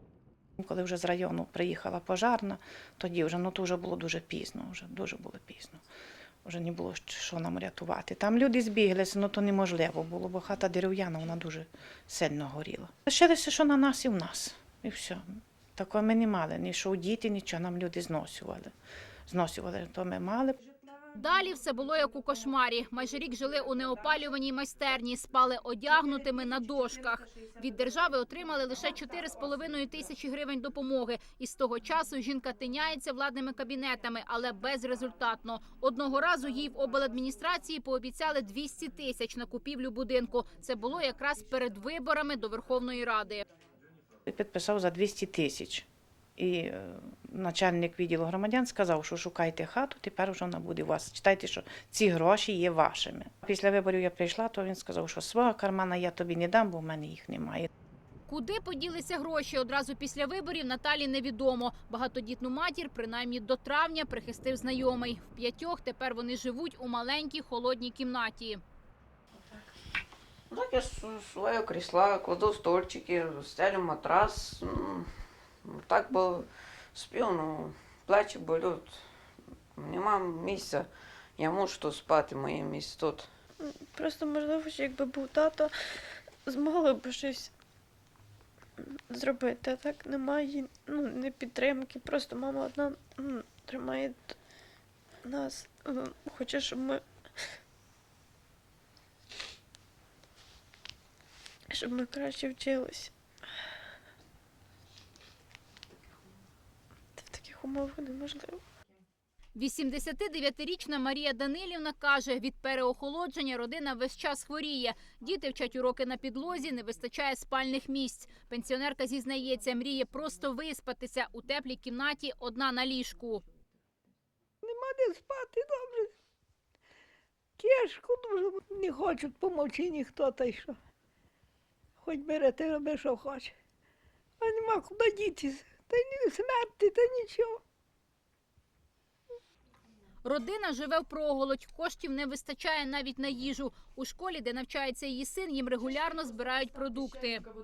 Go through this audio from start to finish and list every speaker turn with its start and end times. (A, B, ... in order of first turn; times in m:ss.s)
0:00.6-0:05.8 A
0:06.4-0:18.7 A
0:19.3-0:20.6 A
0:21.1-0:43.4 B
0:44.3-0:57.7 A
0:58.3-1:08.6 B
1:10.5-1:15.1 C
1:15.6-1:19.0 C
1:19.7-1:23.3 C
1:23.6-1:25.7 D
1:26.4-1:27.5 D
1:28.8-1:34.4 D
1:35.2-1:37.0 D
1:41.7-1:43.1 D
1:47.2-1:48.6 D
1:49.5-2:03.4 B
2:04.6-2:06.1 E
2:07.6-2:10.8 E
2:12.0-2:13.5 E
2:14.4-2:17.6 E
2:20.2-2:27.4 B